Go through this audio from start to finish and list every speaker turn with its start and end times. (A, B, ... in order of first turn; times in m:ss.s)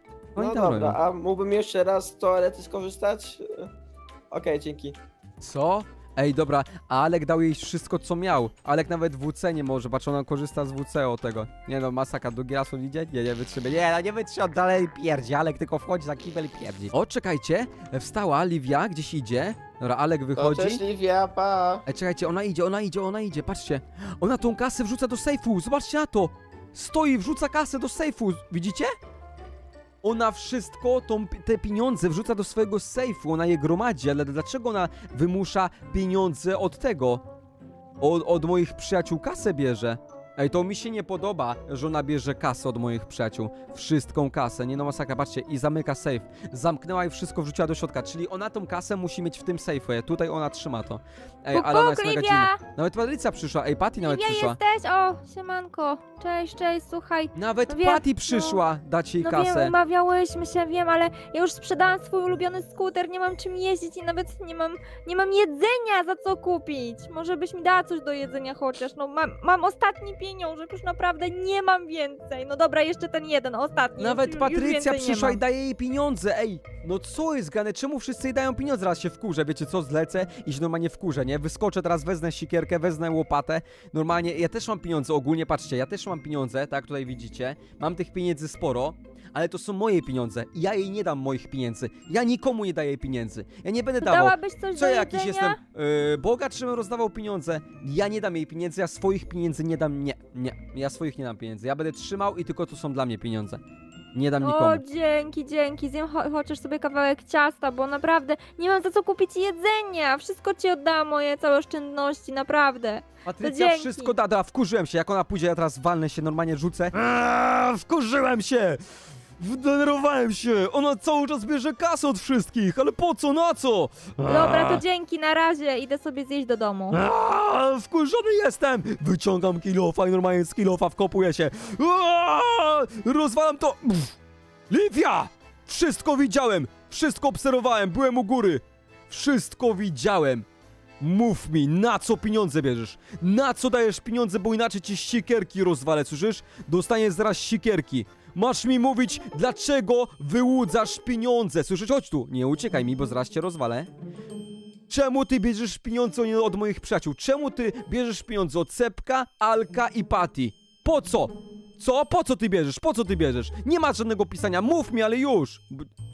0:00.4-0:01.0 A
0:00.4-0:03.7 B
0:04.3-0:05.0 B
0:05.4-0:20.8 A
0:20.4-0:21.8 B
0:21.9-0:28.9 A
0:30.0-0:37.2 A
0:38.0-0:54.6 A
0:51.5-0:52.6 C
0:54.1-0:58.6 C
0:57.4-0:59.8 A
0:59.2-1:15.4 C
1:14.0-1:43.6 A
1:34.1-1:35.5 C
1:44.1-1:44.8 A
1:44.4-1:54.1 C
1:53.2-1:58.8 A
1:59.4-2:04.8 A
2:04.3-2:07.0 C
2:06.9-2:14.2 A
2:14.7-2:20.4 A
2:21.0-2:33.9 A
2:34.9-2:45.9 A